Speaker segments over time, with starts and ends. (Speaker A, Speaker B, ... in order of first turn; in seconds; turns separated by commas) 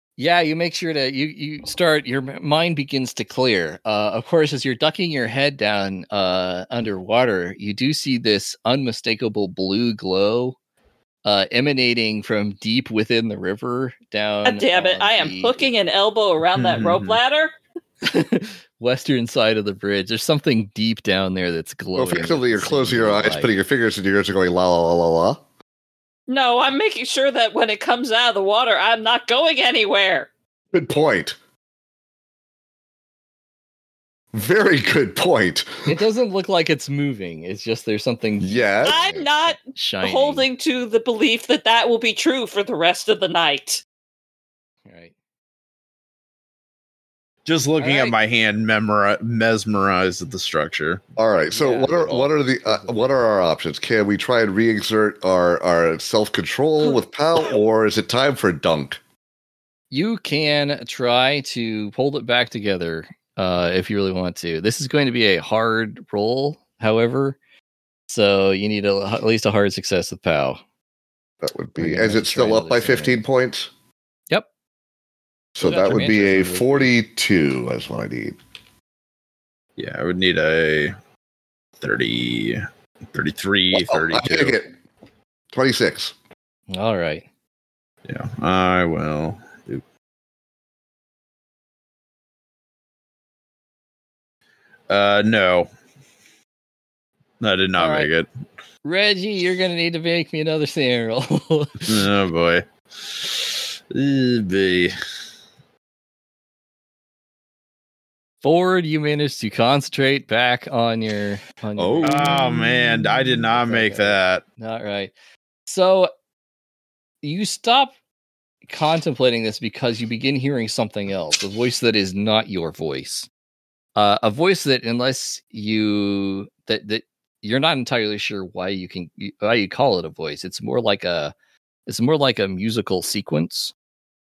Speaker A: 0.2-10.6, Speaker A: 11.2-15.7, Speaker B: 14.4-17.5, Speaker C: 16.5-17.2, Speaker A: 18.0-23.5, Speaker D: 21.9-25.4, Speaker B: 26.3-30.3, Speaker D: 30.7-31.4, Speaker D: 34.3-36.0, Speaker A: 35.9-40.5, Speaker D: 38.4-39.1, Speaker B: 38.8-43.8, Speaker A: 44.9-45.1, Speaker C: 47.4-51.0, Speaker B: 47.8-48.1, Speaker D: 51.1-59.0, Speaker A: 51.5-53.0, Speaker A: 59.9-67.4, Speaker A: 68.1-70.6, Speaker D: 71.4-73.7, Speaker A: 71.8-73.2, Speaker D: 75.5-78.4, Speaker A: 75.6-76.9, Speaker C: 79.8-80.9, Speaker C: 81.8-84.6, Speaker D: 83.7-84.7, Speaker D: 85.5-86.1, Speaker A: 86.7-87.2, Speaker C: 88.0-89.8, Speaker C: 94.9-95.7, Speaker C: 97.4-98.3, Speaker A: 97.8-98.1, Speaker A: 98.8-101.9, Speaker C: 101.9-104.9, Speaker A: 108.4-112.7, Speaker D: 111.8-113.3, Speaker C: 112.0-114.4, Speaker A: 113.5-115.1, Speaker A: 115.7-116.1, Speaker A: 117.2-117.9, Speaker A: 118.7-123.3, Speaker A: 124.0-131.3, Speaker A: 131.9-133.7